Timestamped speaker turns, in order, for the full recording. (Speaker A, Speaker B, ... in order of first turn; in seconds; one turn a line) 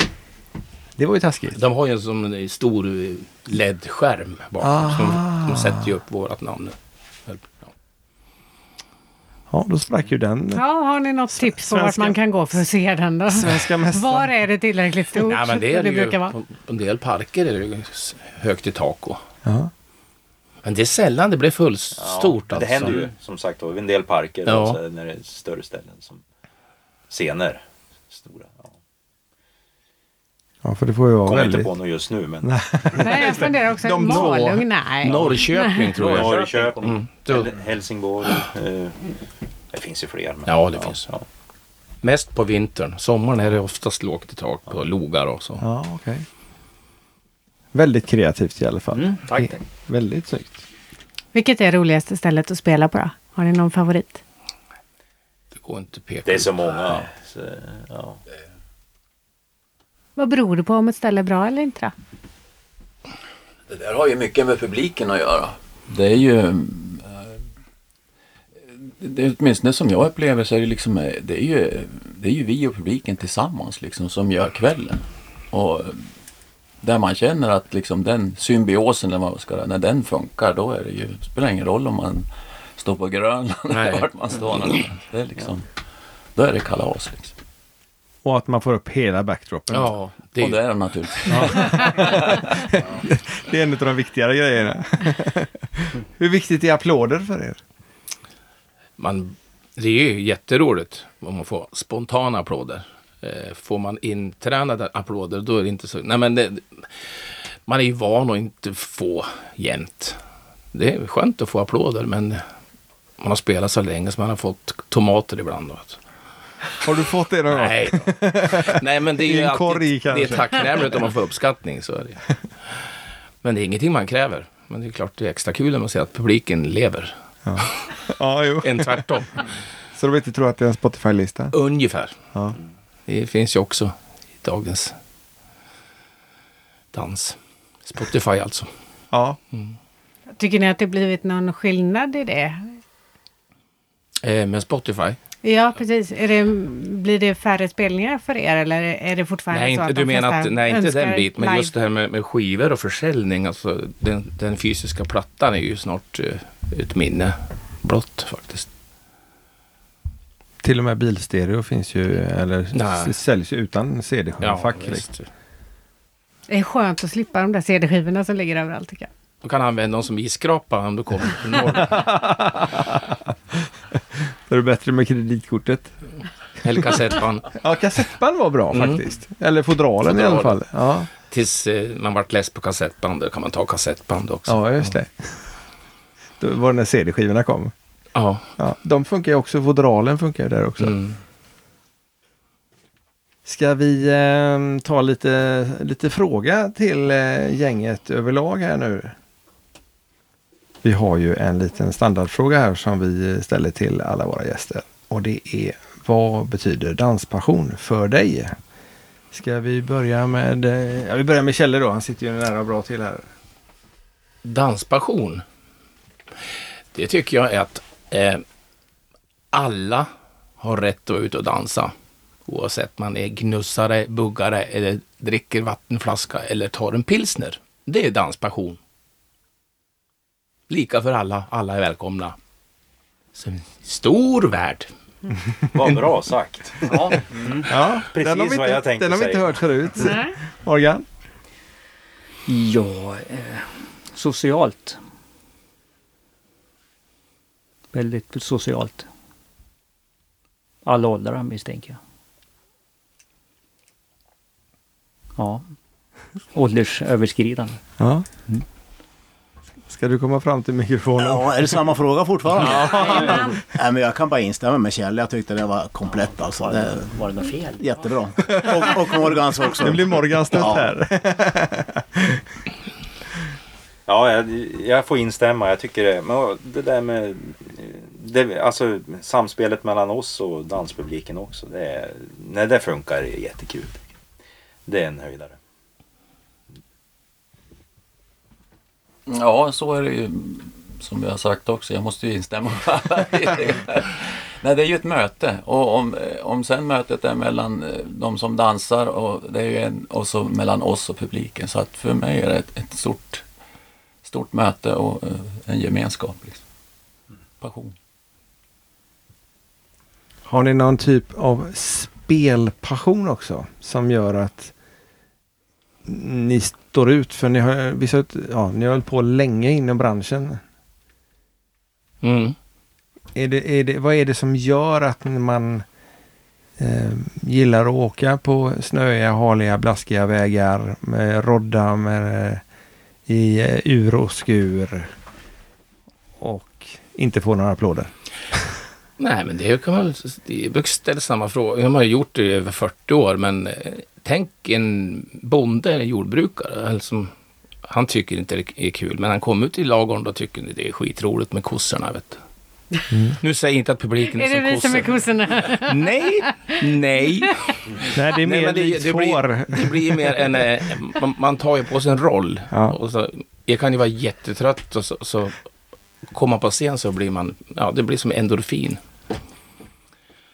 Speaker A: 1.0-1.6
Speaker B: 1.5-7.7
Speaker A: 4.6-5.9
Speaker A: 9.5-10.6
Speaker C: 10.5-16.4
Speaker A: 11.3-12.2
Speaker A: 13.3-14.3
Speaker B: 15.2-19.2
Speaker A: 19.4-19.7
Speaker B: 20.6-23.1
Speaker D: 22.0-26.2
Speaker B: 24.5-24.8
Speaker D: 27.1-28.7
Speaker A: 30.6-31.7
Speaker D: 31.3-32.5
Speaker A: 32.4-34.7
Speaker C: 33.0-36.0
Speaker B: 35.0-37.5
Speaker D: 36.0-39.0
Speaker D: 39.7-41.2
Speaker B: 40.5-41.1
Speaker B: 42.0-45.6
Speaker A: 45.6-46.3
Speaker A: 47.7-50.6
Speaker E: 49.0-49.6
Speaker C: 51.3-54.2
Speaker B: 55.5-57.0
Speaker D: 56.2-58.2
Speaker C: 60.2-61.9
Speaker F: 63.7-67.3
Speaker F: 68.8-76.1
Speaker F: 76.8-85.7
Speaker B: 83.7-84.1
Speaker F: 86.4-87.3
Speaker A: 88.2-89.9
Speaker B: 89.7-90.6
Speaker F: 90.4-92.5
Speaker A: 91.3-97.6
Speaker B: 99.0-106.9
Speaker B: 107.7-110.2
Speaker B: 110.7-112.4
Speaker B: 113.2-116.0
Speaker A: 116.8-120.9
Speaker B: 117.5-122.2
Speaker B: 123.4-127.1
Speaker A: 127.5-129.1
Speaker B: 128.6-129.4
Speaker A: 129.9-131.5
Speaker B: 131.5-132.1
Speaker B: 133.1-135.0
Speaker B: 136.9-138.7
Speaker A: 139.1-139.4
Speaker C: 140.4-142.7
Speaker B: 144.2-145.2
Speaker C: 145.4-151.7
Speaker B: 149.5-158.7
Speaker A: 160.6-165.0
Speaker B: 162.7-163.2
Speaker B: 164.4-165.3
Speaker C: 166.5-169.1
Speaker B: 169.4-172.1
Speaker A: 171.7-175.9
Speaker B: 176.6-177.5
Speaker A: 177.6-181.1
Speaker B: 178.7-179.0
Speaker B: 180.1-180.6
Speaker B: 181.3-184.9
Speaker A: 184.5-185.4
Speaker A: 186.4-187.7
Speaker B: 188.1-188.5
Speaker A: 188.6-191.0
Speaker B: 190.8-191.2
Speaker A: 193.4-199.2
Speaker A: 200.8-208.6
Speaker A: 209.3-213.3
Speaker B: 214.4-215.4
Speaker B: 216.9-218.4
Speaker B: 219.5-221.9
Speaker B: 222.5-228.8
Speaker B: 230.7-232.4
Speaker B: 233.3-234.9
Speaker D: 235.7-237.2
Speaker E: 236.9-237.7
Speaker A: 237.7-241.0
Speaker D: 238.1-239.6
Speaker C: 240.0-240.3
Speaker E: 242.5-245.0
Speaker E: 247.9-249.1
Speaker E: 250.8-252.0
Speaker E: 255.4-255.7
Speaker E: 256.5-257.8
Speaker A: 258.0-258.2
Speaker A: 259.9-261.6
Speaker G: 261.2-270.9
Speaker A: 262.6-263.4
Speaker E: 266.7-267.8
Speaker A: 269.8-272.4
Speaker D: 274.1-284.0
Speaker D: 284.9-285.6
Speaker F: 289.3-303.4
Speaker F: 304.2-306.6
Speaker F: 307.6-307.9
Speaker A: 310.5-314.7
Speaker A: 316.1-320.6
Speaker B: 322.2-322.6
Speaker A: 323.4-325.9
Speaker A: 326.8-332.6
Speaker A: 333.3-335.1
Speaker A: 336.4-338.1
Speaker B: 339.2-347.3
Speaker B: 347.8-352.4
Speaker A: 353.1-353.4
Speaker B: 353.4-357.6
Speaker C: 354.3-356.0
Speaker A: 358.1-360.4
Speaker B: 358.3-365.6
Speaker A: 362.7-363.0
Speaker B: 366.3-369.0